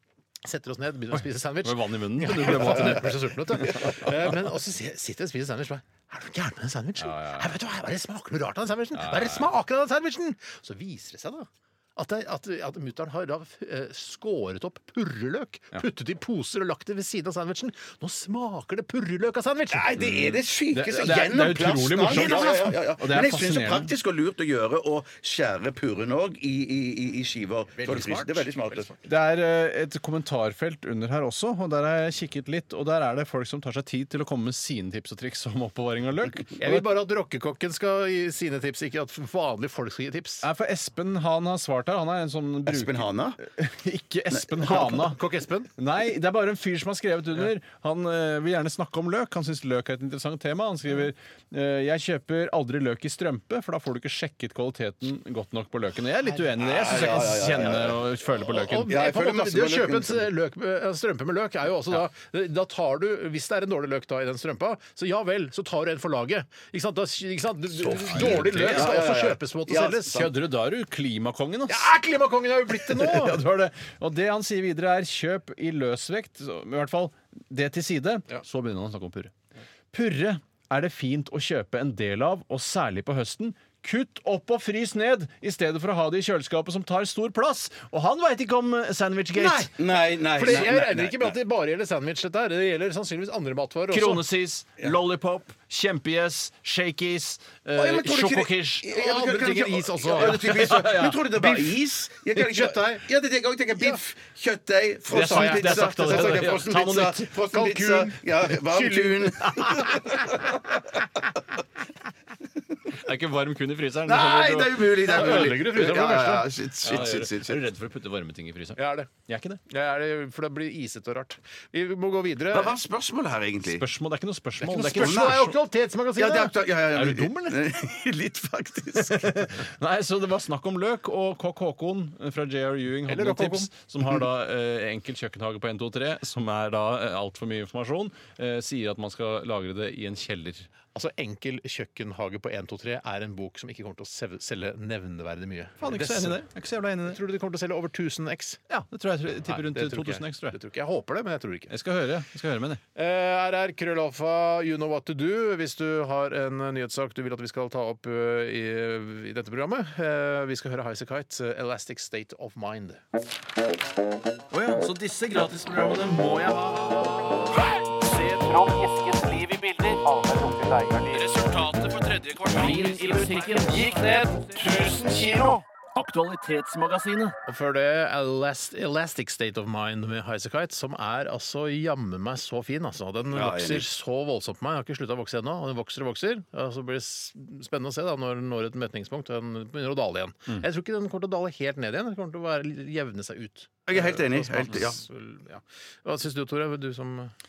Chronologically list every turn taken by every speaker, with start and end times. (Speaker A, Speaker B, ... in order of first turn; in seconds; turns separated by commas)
Speaker A: 0.4-19.9, Speaker B: 1.2-4.2, Speaker B: 7.0-7.5, Speaker B: 8.9-9.5, Speaker C: 19.7-28.9, Speaker B: 20.0-23.9, Speaker A: 22.1-22.7, Speaker A: 27.8-28.9, Speaker B: 29.0-36.9, Speaker A: 36.6-40.5, Speaker B: 40.4-45.2, Speaker C: 42.6-43.4, Speaker C: 44.3-44.9, Speaker A: 44.7-45.7, Speaker B: 45.8-59.0, Speaker C: 56.6-58.0, Speaker A: 58.5-70.2, Speaker C: 58.8-60.3, Speaker C: 67.8-70.3, Speaker B: 68.0-68.9, Speaker B: 70.1-71.9, Speaker A: 71.7-73.4, Speaker B: 72.7-79.3, Speaker B: 79.9-89.7, Speaker C: 89.4-91.3, Speaker A: 90.3-94.2, Speaker B: 93.9-98.9, Speaker C: 97.7-110.5, Speaker A: 98.9-100.5, Speaker B: 100.1-101.6, Speaker A: 102.4-103.0, Speaker B: 105.1-107.4, Speaker A: 105.1-106.6, Speaker A: 107.5-110.3, Speaker B: 112.9-115.6, Speaker C: 114.0-117.6, Speaker A: 115.0-116.5, Speaker B: 116.8-119.6, Speaker A: 118.8-119.1, Speaker A: 119.7-122.8, Speaker C: 122.5-123.9, Speaker B: 123.7-125.5, Speaker A: 124.6-126.5, Speaker C: 124.9-125.5, Speaker C: 126.2-129.5, Speaker B: 126.9-127.7, Speaker B: 129.0-140.7, Speaker A: 133.1-133.7, Speaker A: 140.9-146.4, Speaker B: 145.8-147.2, Speaker A: 147.1-148.6, Speaker B: 148.7-150.6, Speaker A: 149.5-151.7, Speaker B: 151.7-152.8, Speaker A: 152.9-163.0, Speaker B: 164.5-170.0, Speaker A: 169.9-171.3, Speaker B: 171.1-177.4, Speaker A: 172.7-174.3, Speaker A: 177.4-197.3, Speaker C: 183.3-183.9, Speaker C: 193.9-195.0